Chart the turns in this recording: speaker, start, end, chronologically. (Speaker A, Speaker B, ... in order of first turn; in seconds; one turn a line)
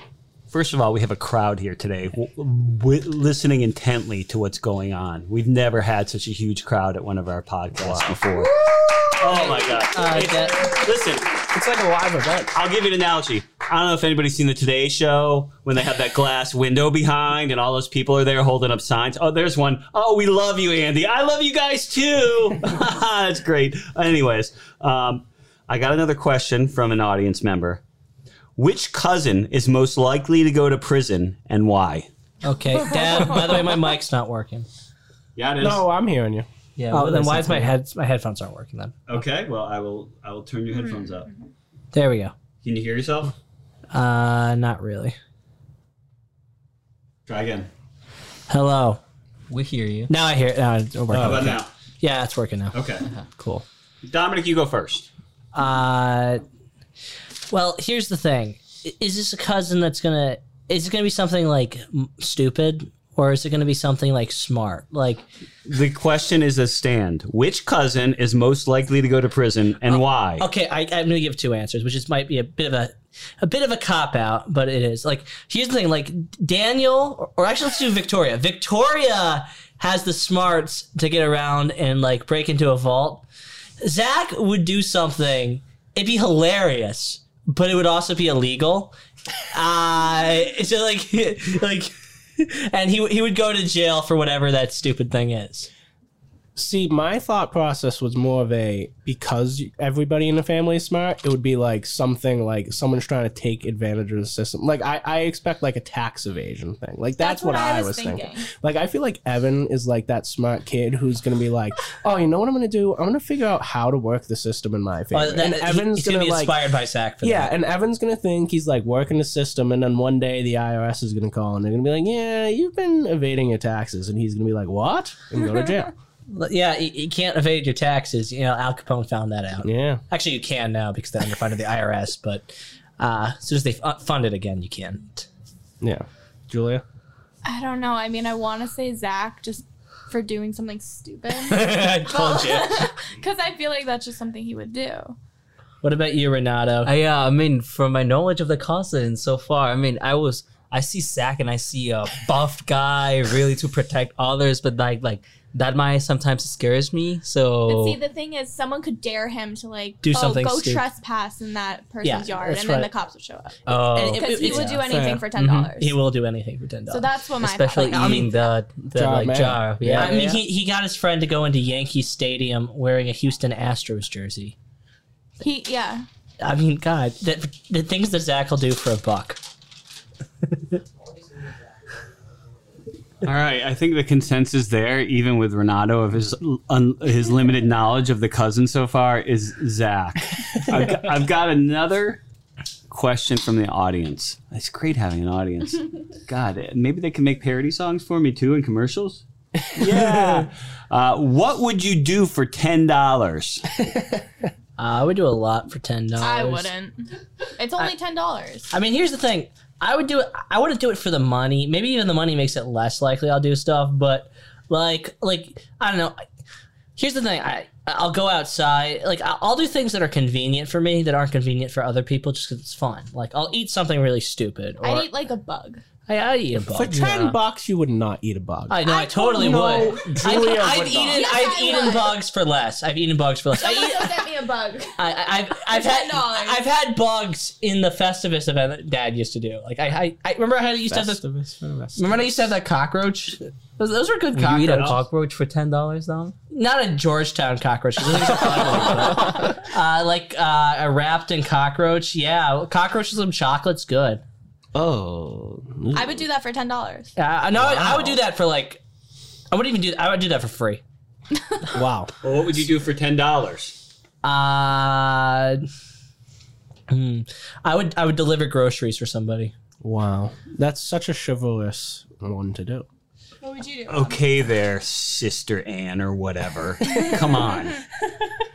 Speaker A: 0.5-8.6
Speaker B: 7.8-8.2
Speaker A: 9.2-11.5
Speaker C: 9.4-10.7
Speaker B: 11.5-12.5
Speaker A: 12.5-27.8
Speaker A: 28.6-32.1
Speaker C: 32.4-34.7
Speaker A: 35.4-35.9
Speaker B: 35.6-36.5
Speaker D: 36.8-37.7
Speaker C: 36.9-39.0
Speaker A: 39.1-41.3
Speaker E: 40.7-41.2
Speaker C: 41.9-42.3
Speaker A: 42.6-43.3
Speaker C: 43.9-45.2
Speaker A: 47.3-47.7
Speaker C: 48.5-49.0
Speaker D: 49.5-50.1
Speaker C: 50.1-52.8
Speaker B: 51.1-51.6
Speaker A: 51.2-51.7
Speaker A: 52.7-53.1
Speaker B: 53.4-53.6
Speaker A: 54.0-55.1
Speaker C: 55.5-56.4
Speaker C: 57.5-65.2
Speaker A: 65.7-70.5
Speaker C: 70.4-83.3
Speaker C: 83.8-89.0
Speaker C: 89.5-95.7
Speaker B: 96.6-116.6
Speaker E: 107.2-108.5
Speaker C: 115.1-117.5
Speaker B: 117.2-125.9
Speaker C: 126.3-135.3
Speaker B: 129.6-130.0
Speaker B: 135.8-136.8
Speaker E: 137.4-145.2
Speaker C: 141.4-142.9
Speaker C: 145.8-146.9
Speaker D: 146.8-158.0
Speaker E: 157.7-163.6
Speaker C: 160.0-160.8
Speaker C: 162.0-162.9
Speaker D: 163.7-164.9
Speaker C: 163.7-164.8
Speaker E: 164.1-166.0
Speaker B: 164.9-165.3
Speaker C: 165.4-167.1
Speaker E: 166.9-168.3
Speaker D: 167.4-170.4
Speaker C: 167.8-168.3
Speaker B: 168.9-170.2
Speaker C: 169.8-174.6
Speaker E: 175.4-176.1
Speaker C: 176.4-179.4
Speaker C: 180.5-180.8
Speaker A: 183.2-192.2
Speaker A: 192.9-203.7
Speaker B: 199.8-200.3
Speaker C: 204.8-206.7
Speaker E: 206.2-207.1
Speaker E: 207.6-208.7
Speaker C: 208.7-216.2
Speaker C: 217.0-225.1
Speaker E: 224.8-225.8
Speaker C: 226.1-227.1
Speaker B: 226.7-231.3
Speaker D: 227.1-227.3
Speaker C: 228.7-234.3
Speaker E: 228.8-230.2
Speaker E: 231.1-232.2
Speaker E: 233.6-235.1
Speaker C: 235.0-241.2
Speaker E: 235.7-236.6
Speaker B: 240.9-242.3
Speaker C: 242.0-245.0
Speaker D: 244.3-246.3
Speaker A: 244.7-245.0
Speaker C: 246.5-254.2
Speaker B: 248.5-249.5
Speaker B: 254.7-256.3
Speaker E: 255.9-257.1
Speaker C: 257.2-258.8
Speaker B: 257.5-258.2
Speaker C: 259.5-260.8
Speaker B: 261.7-262.1
Speaker A: 262.2-263.8
Speaker C: 264.2-265.7
Speaker C: 266.9-269.5
Speaker B: 269.8-272.9
Speaker E: 273.4-274.3
Speaker A: 273.9-277.8